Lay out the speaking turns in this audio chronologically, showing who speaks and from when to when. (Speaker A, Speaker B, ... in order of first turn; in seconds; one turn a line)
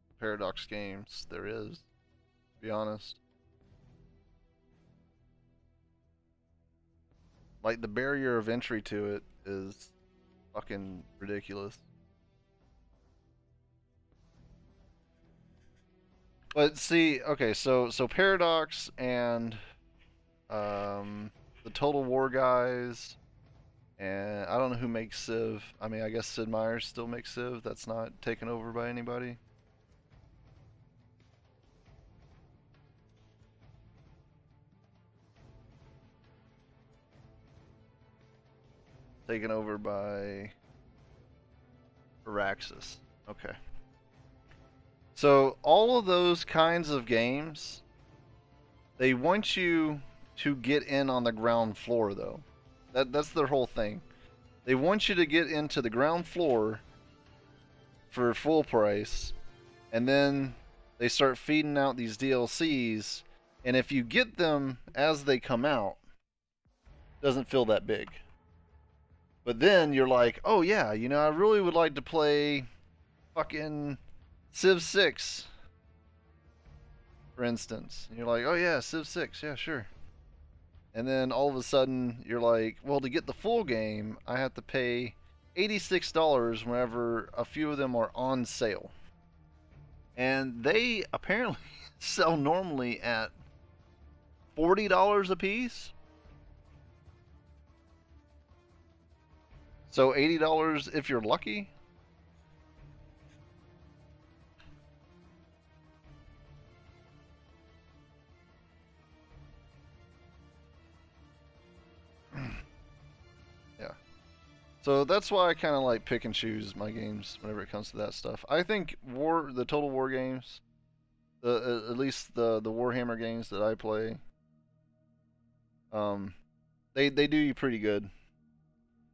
Speaker A: 0.2-1.9
Speaker A: 2.6-3.2
Speaker A: 7.6-9.9
Speaker A: 10.5-11.8
Speaker A: 16.5-19.6
Speaker A: 20.5-23.2
Speaker A: 24.0-29.4
Speaker A: 39.3-40.5
Speaker A: 42.2-43.6
Speaker A: 45.1-47.8
Speaker A: 49.0-54.0
Speaker A: 54.6-56.8
Speaker A: 58.1-59.4
Speaker A: 59.9-66.0
Speaker A: 67.2-68.2
Speaker A: 69.5-72.7
Speaker A: 73.3-74.0
Speaker A: 74.5-75.5
Speaker A: 77.4-79.9
Speaker A: 80.9-88.9
Speaker A: 90.2-93.3
Speaker A: 94.5-95.9
Speaker A: 99.9-101.7
Speaker A: 112.3-112.6
Speaker A: 114.8-120.6
Speaker A: 121.4-124.2
Speaker A: 125.9-126.4
Speaker A: 126.9-128.1